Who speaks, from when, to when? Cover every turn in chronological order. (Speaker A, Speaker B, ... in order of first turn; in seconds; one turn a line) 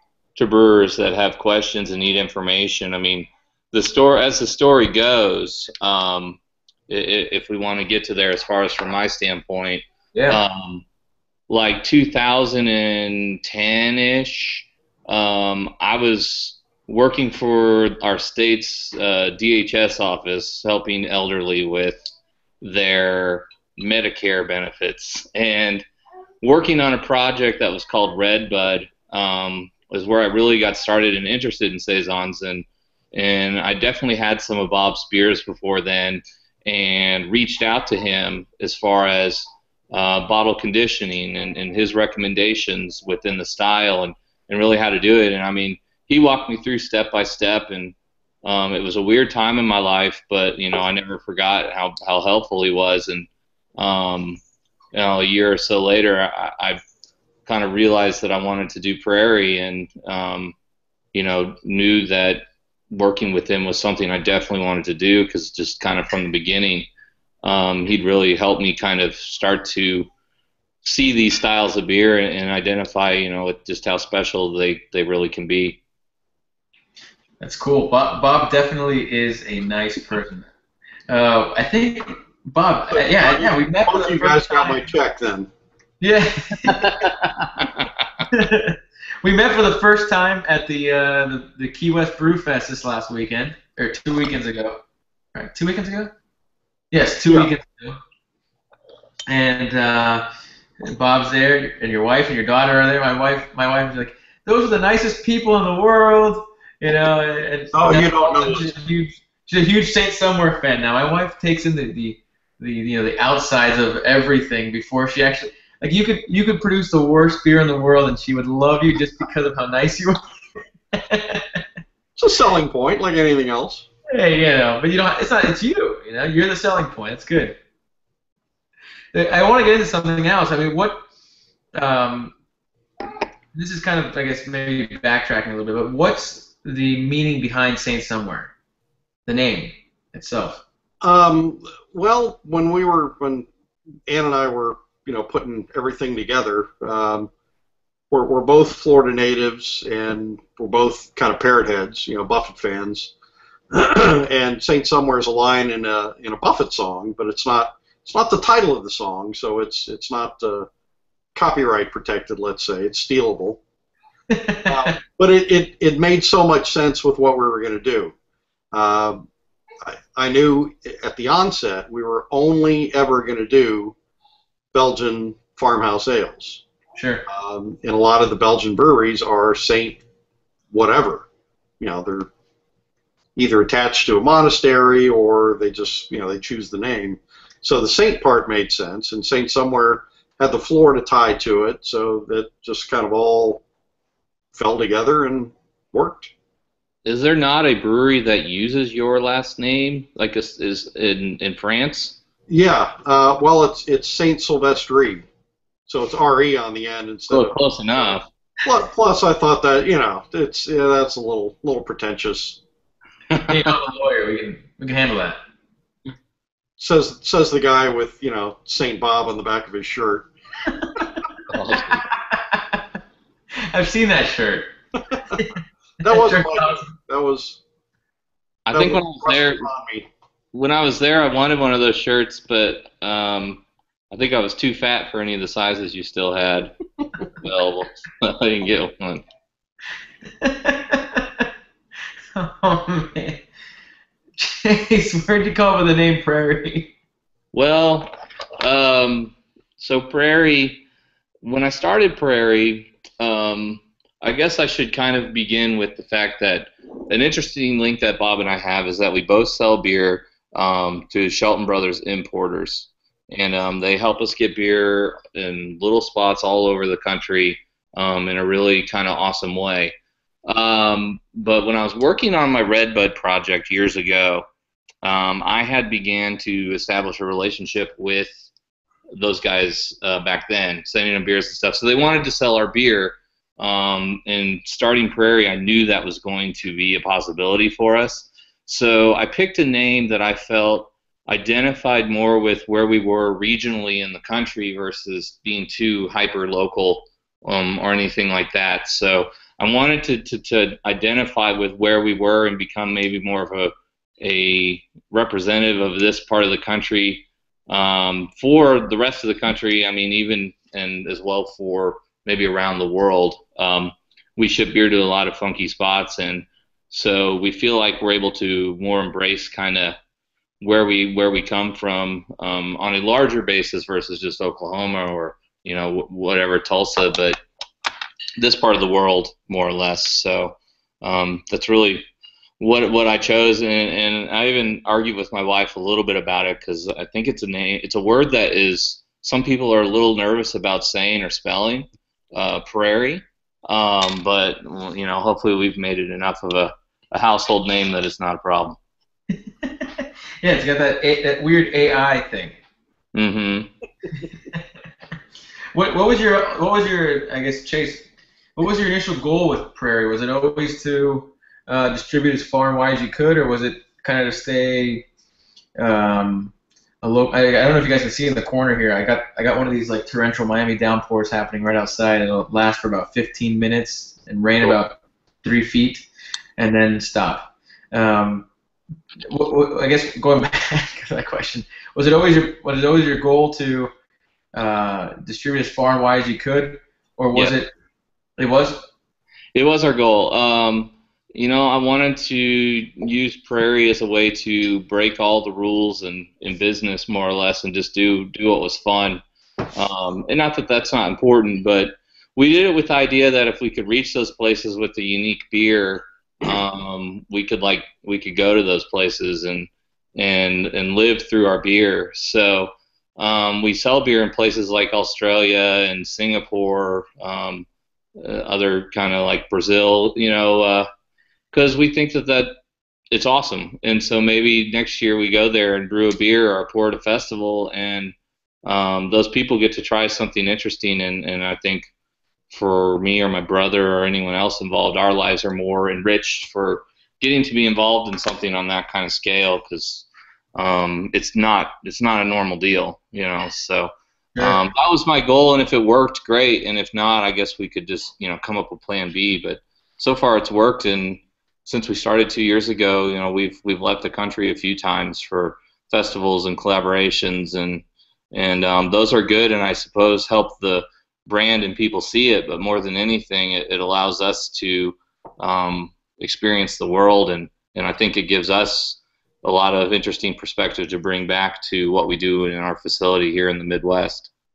Speaker A: 0.4-6.4
Speaker A: 6.9-10.8
Speaker B: 10.1-10.4
Speaker A: 11.5-22.0
Speaker A: 22.6-25.9
Speaker A: 26.4-54.4
Speaker A: 54.9-56.8
Speaker A: 57.5-60.5
Speaker A: 61.1-66.9
Speaker A: 67.4-70.1
Speaker A: 70.8-75.8
Speaker B: 77.4-80.5
Speaker B: 81.1-84.9
Speaker C: 82.9-85.5
Speaker B: 86.0-87.1
Speaker A: 87.0-87.9
Speaker B: 88.3-94.8
Speaker B: 95.3-96.1
Speaker B: 96.9-98.0
Speaker B: 99.3-100.3
Speaker B: 100.8-120.2
Speaker C: 107.7-108.7
Speaker B: 120.9-121.6
Speaker C: 122.2-123.9
Speaker B: 124.1-127.6
Speaker B: 129.1-131.0
Speaker B: 131.7-132.3
Speaker B: 133.5-138.5
Speaker B: 139.3-140.6
Speaker C: 141.0-143.5
Speaker C: 144.1-147.3
Speaker C: 148.1-153.1
Speaker C: 153.7-160.7
Speaker C: 161.3-163.6
Speaker B: 164.3-165.0
Speaker C: 164.7-168.1
Speaker C: 168.7-169.2
Speaker C: 169.8-173.9
Speaker C: 174.7-176.6
Speaker B: 176.9-177.2
Speaker C: 177.3-180.0
Speaker C: 180.7-181.3
Speaker C: 181.8-182.3
Speaker C: 183.4-193.6
Speaker C: 194.5-196.3
Speaker A: 197.1-202.2
Speaker C: 202.5-205.3
Speaker C: 205.9-212.6
Speaker A: 207.3-208.3
Speaker A: 213.3-213.6
Speaker B: 213.5-215.4
Speaker C: 216.8-220.3
Speaker B: 220.8-221.0
Speaker A: 221.5-222.1
Speaker B: 221.9-222.8
Speaker B: 223.7-224.7
Speaker C: 226.0-227.6
Speaker B: 226.1-226.9
Speaker A: 228.7-229.7
Speaker C: 228.7-230.1
Speaker A: 230.5-236.8
Speaker A: 237.3-239.2
Speaker B: 240.4-241.5
Speaker B: 242.3-243.4
Speaker B: 244.4-246.9
Speaker A: 247.5-250.8
Speaker A: 251.4-270.0
Speaker A: 270.5-274.4
Speaker A: 275.0-278.3
Speaker A: 279.2-320.0
Speaker A: 320.6-327.4
Speaker A: 328.4-332.1
Speaker A: 332.6-348.8
Speaker B: 349.6-352.6
Speaker A: 353.1-353.7
Speaker B: 355.7-358.1
Speaker B: 358.6-365.1
Speaker B: 365.8-376.1
Speaker B: 376.6-378.5
Speaker B: 379.3-383.9
Speaker B: 384.5-387.7
Speaker B: 388.4-388.9
Speaker A: 389.6-399.2
Speaker A: 399.8-417.7
Speaker A: 418.2-420.9
Speaker A: 421.5-422.6
Speaker A: 423.1-431.9
Speaker A: 432.5-474.3